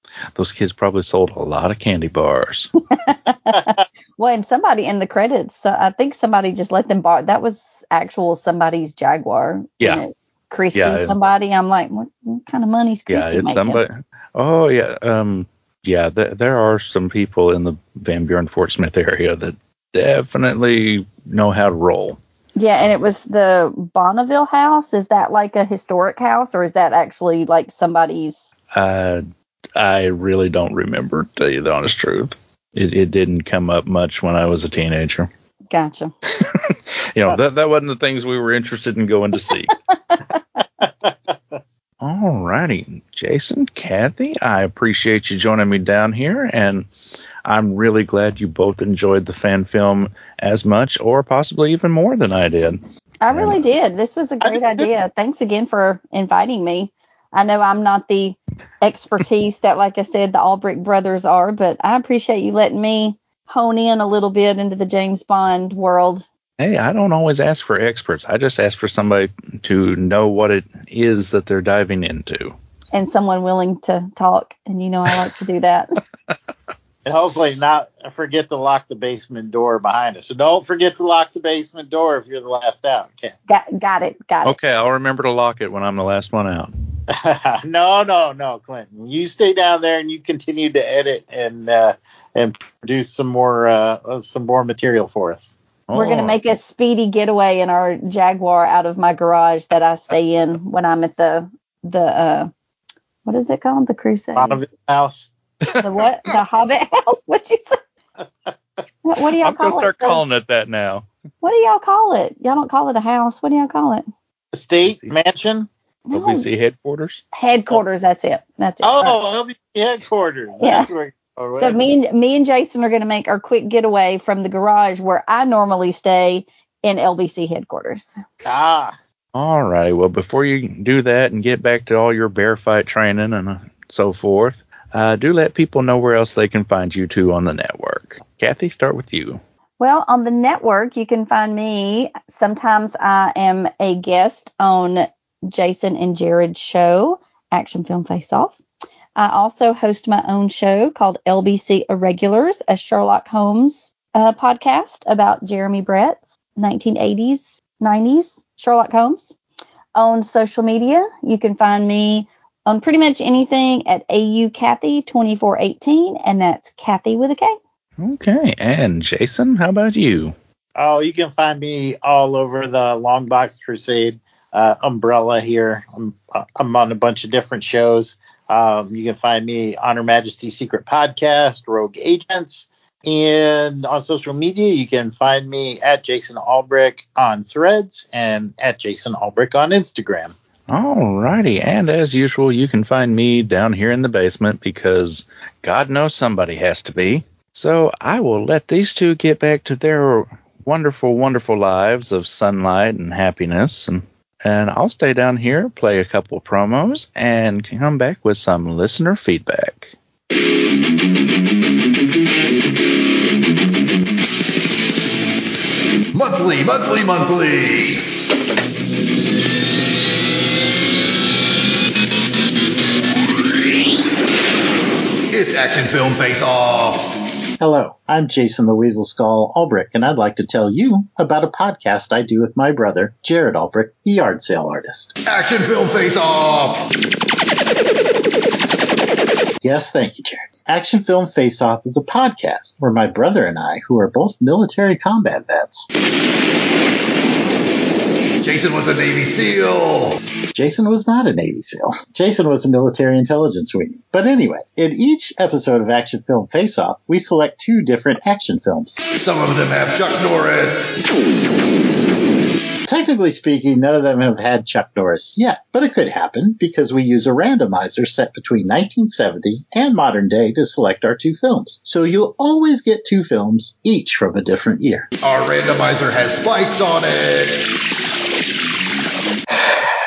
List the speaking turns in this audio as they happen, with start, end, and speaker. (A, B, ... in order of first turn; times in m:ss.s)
0:00.4-0:02.7 A
0:02.9-0:13.8 B
0:10.7-0:11.1 A
0:13.1-0:22.2 A
0:22.6-0:28.5 B
0:28.7-0:29.2 A
0:29.8-0:35.3 A
0:35.7-0:36.1 B
0:36.4-0:39.7 A
0:39.9-0:40.6 B
0:41.0-0:41.4 C
0:42.0-0:46.9 A
0:47.4-0:52.8 A
0:53.2-1:06.2 B
0:53.3-0:53.6 A
0:54.4-0:54.9 C
1:06.6-1:12.6 A
1:12.9-1:16.0 B
1:17.0-1:23.3 C
1:23.5-1:24.6 B
1:24.4-1:26.7 A
1:27.1-1:35.5 C
1:35.9-1:36.4 A
1:35.9-1:42.5 B
1:43.2-1:44.6 B
1:44.4-1:45.3 C
1:45.8-1:47.8 B
1:49.0-1:50.2 B
1:49.4-1:51.0 A
1:51.4-1:54.0 B
1:54.5-1:55.7 C
1:54.8-1:55.2 A
1:56.1-1:56.4 B
1:56.1-1:57.2 A
1:57.3-1:59.2 B
1:58.8-2:01.8 C
2:00.6-2:00.9 B
2:01.6-2:08.1 B
2:08.4-2:08.9 C
2:09.3-2:19.4 A
2:19.8-2:28.6 B
2:29.2-2:39.3 B
2:39.9-2:47.6 B
2:48.0-2:50.3 A
2:50.8-3:10.3 C
3:10.7-3:29.9 A
3:36.1-3:38.0 D
3:45.3-3:47.1 D
3:47.6-3:55.2 C
3:55.3-3:56.8 D
3:59.6-4:05.9 C
4:08.4-4:10.2 D
4:10.5-4:19.0 C
4:19.2-4:21.0 D
4:22.8-4:35.1 C
4:35.2-4:37.7 D
4:39.6-4:39.9 C